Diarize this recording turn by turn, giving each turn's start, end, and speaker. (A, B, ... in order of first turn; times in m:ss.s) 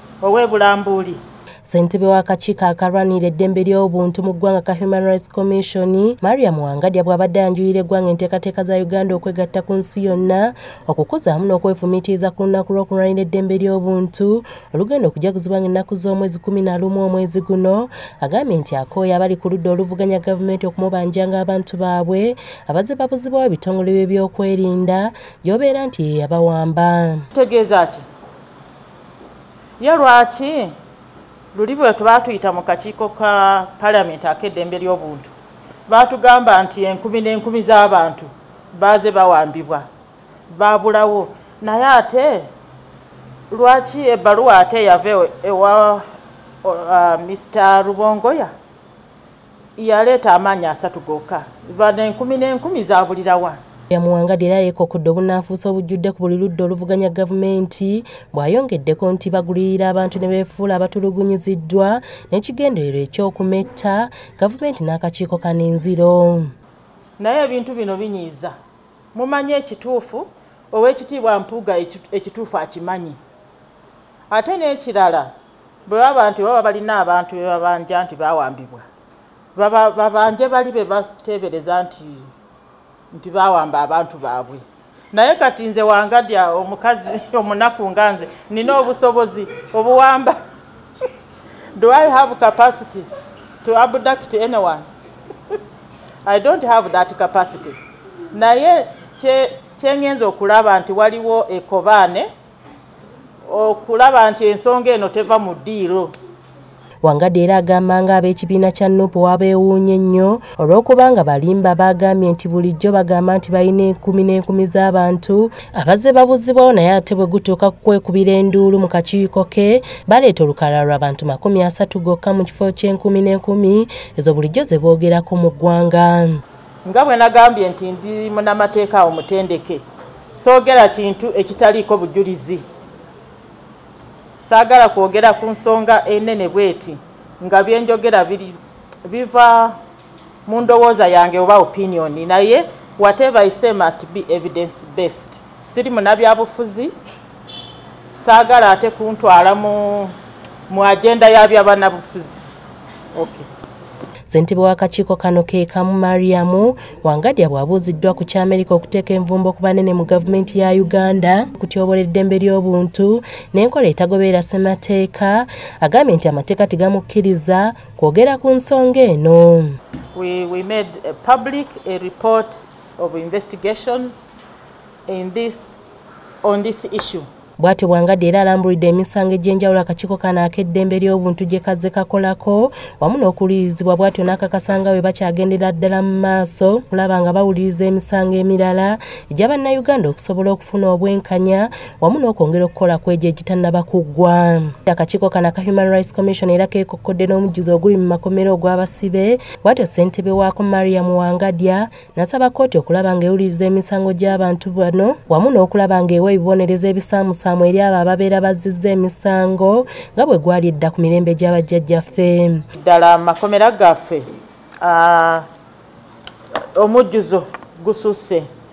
0:00.2-0:01.2 A
0:01.6-0:27.2 B
0:27.3-0:28.0 A
0:29.8-0:30.7 A
0:31.5-0:35.3 A
0:35.9-0:39.9 A
0:40.5-0:42.5 A
0:43.5-0:46.0 A
0:46.6-0:48.5 A
0:49.8-0:53.6 A
0:53.9-1:06.5 B
1:07.2-1:08.5 A
1:09.1-1:13.2 A
1:14.3-1:15.3 A
1:15.8-1:18.8 A
1:19.5-1:22.3 A
1:23.1-1:30.4 A
1:31.7-1:33.1 A
1:33.6-1:34.9 A
1:36.2-1:37.8 A
1:38.3-1:42.3 A
1:43.4-1:46.1 A
1:47.0-2:06.4 B
2:06.8-2:12.6 A
2:14.4-2:19.8 A
2:20.4-2:26.9 A
2:28.1-2:30.1 A
2:30.7-2:32.4 A
2:33.1-2:33.5 A
2:34.3-2:49.8 B
2:50.1-2:54.3 A
2:55.1-2:55.8 A
2:56.4-2:57.3 A
2:57.6-3:32.6 B
3:32.8-3:34.3 A
3:34.8-3:35.4 A
3:36.7-3:38.5 A